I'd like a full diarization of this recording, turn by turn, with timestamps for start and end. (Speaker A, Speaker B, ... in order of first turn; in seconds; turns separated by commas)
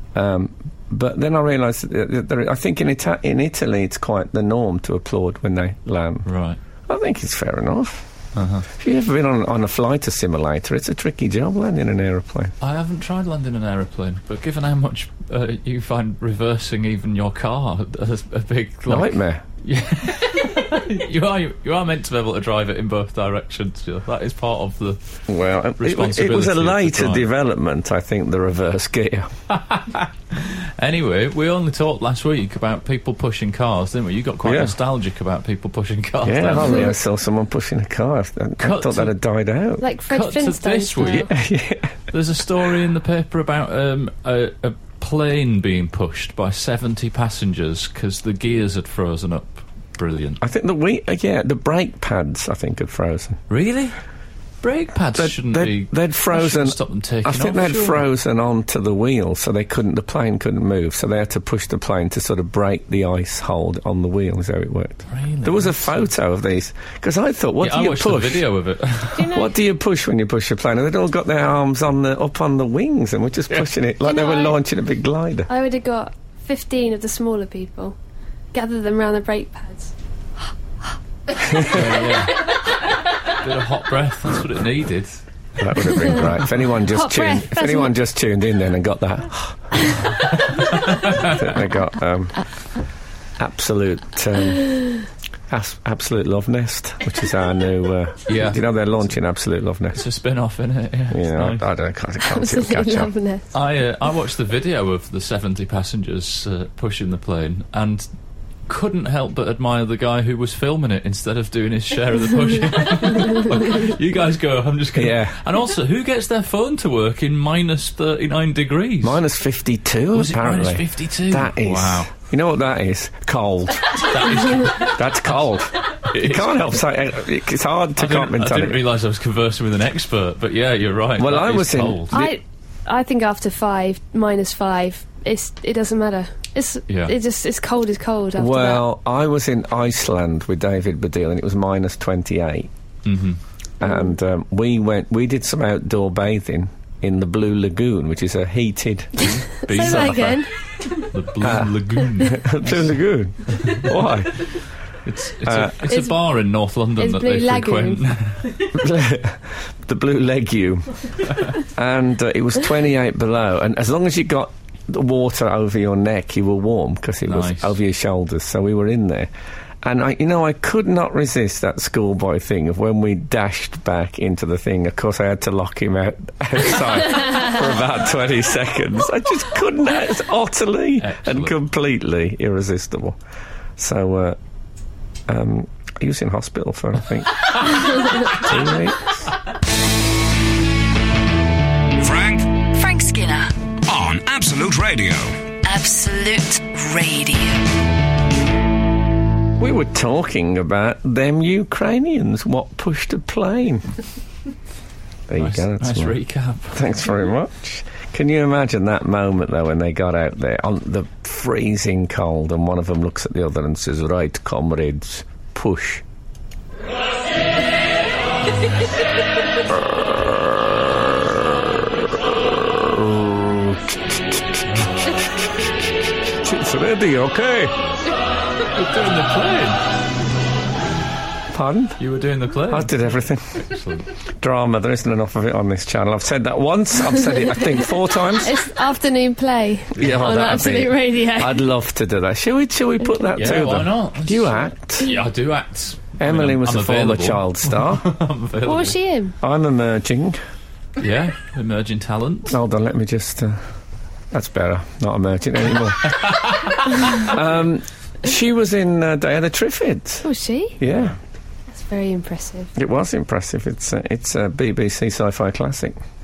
Speaker A: 0.1-6.3, Speaker B: 6.3-6.6, Speaker A: 6.9-8.1, Speaker B: 8.3-8.7, Speaker A: 8.7-12.5, Speaker B: 12.6-25.0, Speaker A: 18.9-19.4, Speaker A: 25.3-29.3, Speaker B: 25.8-27.3, Speaker B: 29.5-36.9, Speaker A: 34.4-34.7, Speaker A: 36.2-39.8, Speaker B: 38.6-39.1, Speaker C: 39.8-41.3, Speaker B: 40.1-41.3, Speaker A: 41.3-41.9, Speaker B: 42.1-50.4, Speaker A: 50.4-53.4, Speaker B: 53.5-53.9, Speaker B: 54.6-58.0, Speaker A: 55.1-68.4, Speaker B: 65.1-66.1, Speaker B: 67.6-69.4, Speaker C: 69.1-69.5, Speaker A: 69.2-75.5, Speaker C: 74.0-74.6, Speaker C: 75.5-78.0, Speaker C: 78.5-79.9, Speaker A: 81.4-82.3, Speaker B: 81.7-82.5, Speaker B: 83.3-85.2, Speaker A: 85.6-89.9, Speaker C: 86.8-87.9, Speaker B: 90.4-91.5, Speaker A: 91.1-92.4, Speaker A: 93.4-94.7, Speaker A: 95.5-100.0, Speaker B: 98.3-99.0, Speaker B: 99.9-101.6, Speaker A: 101.1-103.1, Speaker C: 102.2-103.5, Speaker B: 103.5-108.1, Speaker B: 108.7-119.2, Speaker A: 114.9-115.3, Speaker A: 119.0-128.8, Speaker B: 120.1-122.1, Speaker B: 124.0-126.7, Speaker B: 128.0-132.2, Speaker A: 131.2-132.4, Speaker C: 132.1-138.9, Speaker B: 136.9-137.1, Speaker A: 138.4-142.7, Speaker B: 143.1-143.4, Speaker A: 143.8-150.2, Speaker B: 149.2-152.9, Speaker C: 149.6-150.5, Speaker A: 151.4-154.5, Speaker B: 153.5-153.9, Speaker B: 155.1-158.7, Speaker A: 155.4-155.8, Speaker C: 155.9-156.2, Speaker C: 157.0-158.0, Speaker A: 158.7-161.0, Speaker A: 161.6-169.3, Speaker B: 167.3-167.8, Speaker A: 169.8-183.2, Speaker B: 181.0-181.6, Speaker A: 183.8-184.4, Speaker A: 185.3-189.3, Speaker D: 192.0-192.6, Speaker E: 192.7-193.6, Speaker D: 193.9-195.4, Speaker E: 195.6-197.6, Speaker A: 199.6-203.9, Speaker A: 205.3-206.2, Speaker B: 205.4-207.0, Speaker A: 206.7-216.0, Speaker A: 219.6-227.7, Speaker B: 228.7-229.8, Speaker A: 231.5-232.0, Speaker B: 232.0-234.1, Speaker A: 232.7-233.6, Speaker A: 234.4-238.6, Speaker C: 238.4-241.6, Speaker A: 239.9-245.1, Speaker B: 240.0-240.3, Speaker B: 243.3-248.9, Speaker A: 246.2-248.1, Speaker C: 248.6-249.3, Speaker A: 249.4-250.4, Speaker B: 251.0-252.6, Speaker A: 252.5-253.6, Speaker A: 254.3-260.2, Speaker B: 256.2-257.2, Speaker C: 260.2-260.8, Speaker A: 260.8-261.1, Speaker C: 261.7-262.7, Speaker A: 262.7-266.0